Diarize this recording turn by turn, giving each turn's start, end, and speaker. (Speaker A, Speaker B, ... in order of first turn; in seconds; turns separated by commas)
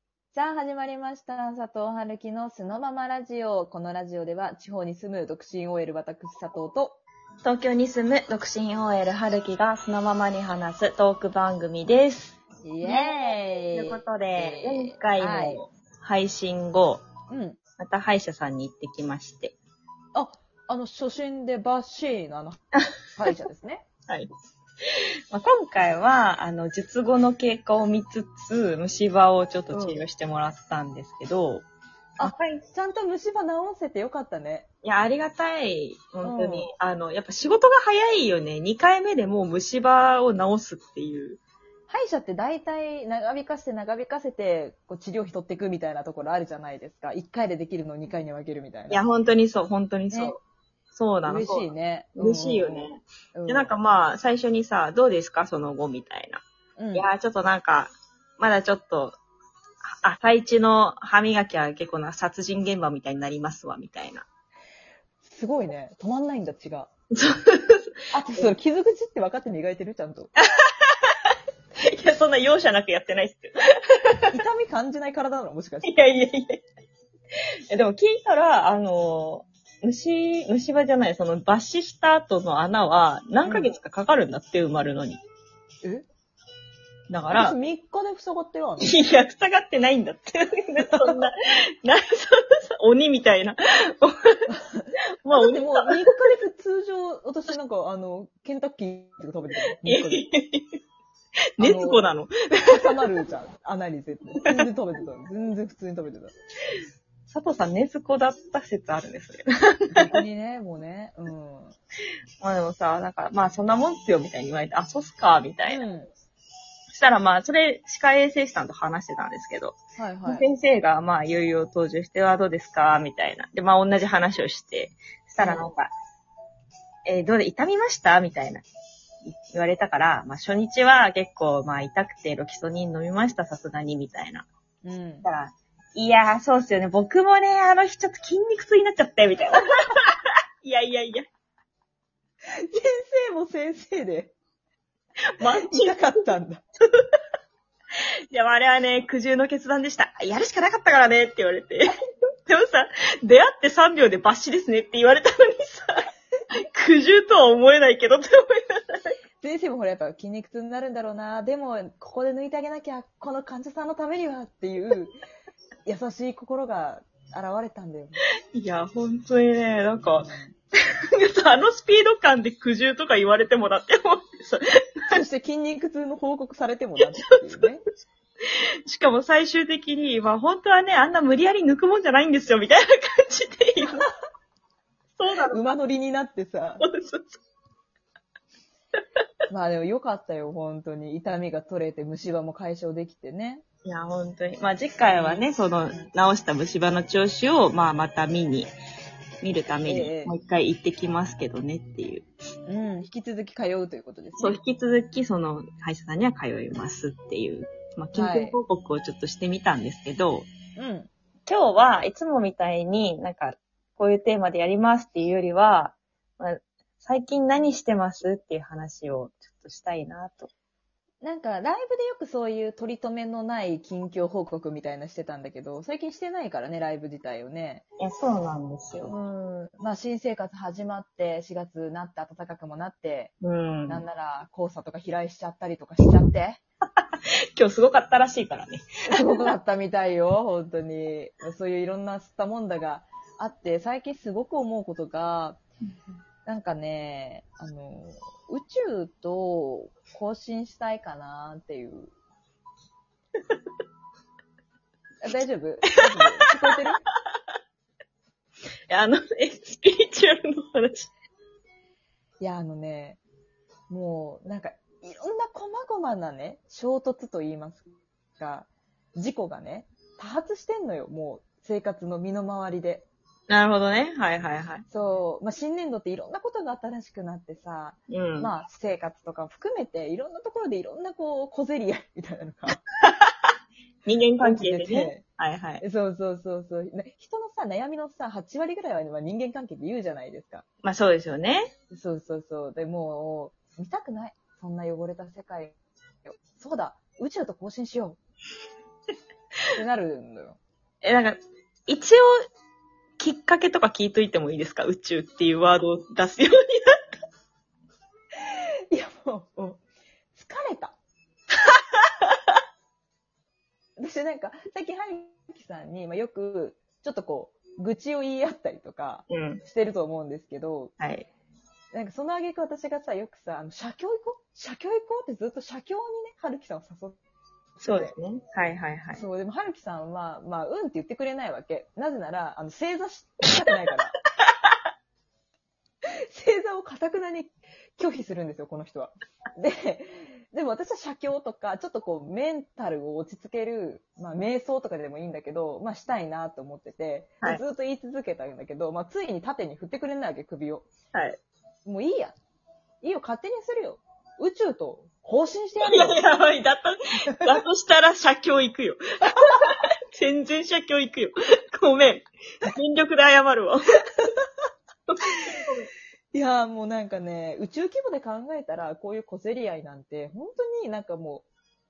Speaker A: 0.3-7.0, Speaker B: 7.4-17.0, Speaker A: 12.6-15.6, Speaker A: 17.3-17.6, Speaker B: 17.8-19.6, Speaker A: 20.1-22.6, Speaker A: 23.1-23.9, Speaker B: 25.3-31.7, Speaker A: 29.7-30.0, Speaker B: 32.2-32.6, Speaker A: 32.2-34.7, Speaker B: 34.8-41.4, Speaker A: 36.2-36.7, Speaker A: 41.9-49.0, Speaker B: 48.9-50.4, Speaker A: 50.1-50.4, Speaker B: 51.0-56.4, Speaker A: 51.2-53.8, Speaker A: 56.8-57.1, Speaker B: 57.0-59.2, Speaker B: 60.0-64.3, Speaker A: 65.2-66.9, Speaker B: 67.2-68.5, Speaker A: 68.1-70.3, Speaker B: 70.6-71.3, Speaker B: 71.8-74.3, Speaker A: 74.3-75.9, Speaker B: 75.8-76.6, Speaker B: 77.7-85.2, Speaker A: 83.4-83.7, Speaker B: 87.1-87.5, Speaker A: 87.3-89.0, Speaker B: 88.8-94.5, Speaker A: 90.9-91.2, Speaker A: 94.5-100.3, Speaker B: 95.2-96.3, Speaker B: 99.8-100.7, Speaker B: 101.6-103.1, Speaker A: 101.6-106.3, Speaker B: 107.3-110.2, Speaker A: 109.9-111.8, Speaker B: 112.4-115.8, Speaker A: 115.7-116.1, Speaker B: 116.9-125.9, Speaker A: 120.0-120.5, Speaker A: 125.4-125.7, Speaker B: 127.1-128.7, Speaker B: 129.3-134.5, Speaker A: 134.8-135.3, Speaker B: 135.2-140.1, Speaker B: 140.6-141.3, Speaker A: 142.6-144.3, Speaker B: 145.4-146.2, Speaker A: 145.6-146.6, Speaker B: 148.3-152.0, Speaker B: 152.5-156.1, Speaker B: 156.7-159.2, Speaker A: 159.4-165.2, Speaker A: 165.8-168.2, Speaker B: 168.5-170.3, Speaker A: 170.2-170.6, Speaker B: 171.1-175.2, Speaker A: 175.1-177.8, Speaker B: 177.0-177.7, Speaker B: 178.9-184.1, Speaker B: 185.2-185.6, Speaker A: 185.5-186.8, Speaker B: 186.8-187.4, Speaker A: 189.5-193.6, Speaker B: 193.8-198.7, Speaker A: 195.1-196.1, Speaker B: 199.4-202.3, Speaker A: 199.9-200.3, Speaker A: 202.7-204.6, Speaker B: 204.4-210.5, Speaker A: 208.1-208.6, Speaker A: 210.8-211.1, Speaker B: 211.5-220.5, Speaker A: 221.2-227.8, Speaker B: 228.0-229.1, Speaker A: 229.0-233.3, Speaker B: 233.4-234.1, Speaker A: 233.9-236.6, Speaker B: 237.0-239.4, Speaker A: 239.1-245.6, Speaker A: 246.5-252.1, Speaker A: 255.2-257.0, Speaker B: 256.2-256.4, Speaker B: 258.9-261.1, Speaker A: 262.4-263.2, Speaker A: 263.9-273.1, Speaker B: 273.5-274.8, Speaker A: 274.9-282.8, Speaker B: 278.1-278.5, Speaker B: 284.1-285.8, Speaker A: 284.4-285.2, Speaker A: 285.8-290.6, Speaker B: 290.8-291.7, Speaker A: 291.9-298.2, Speaker A: 299.7-300.6, Speaker B: 301.0-302.3, Speaker B: 303.2-306.9, Speaker A: 308.9-309.8, Speaker A: 310.3-311.0, Speaker A: 314.0-320.9, Speaker B: 319.3-319.6, Speaker B: 321.0-321.3, Speaker A: 321.9-327.2, Speaker B: 327.8-329.2, Speaker A: 329.2-334.1, Speaker A: 336.3-350.9, Speaker A: 351.9-352.4, Speaker A: 353.0-356.2, Speaker B: 355.8-363.8, Speaker B: 365.1-365.9, Speaker A: 366.3-371.5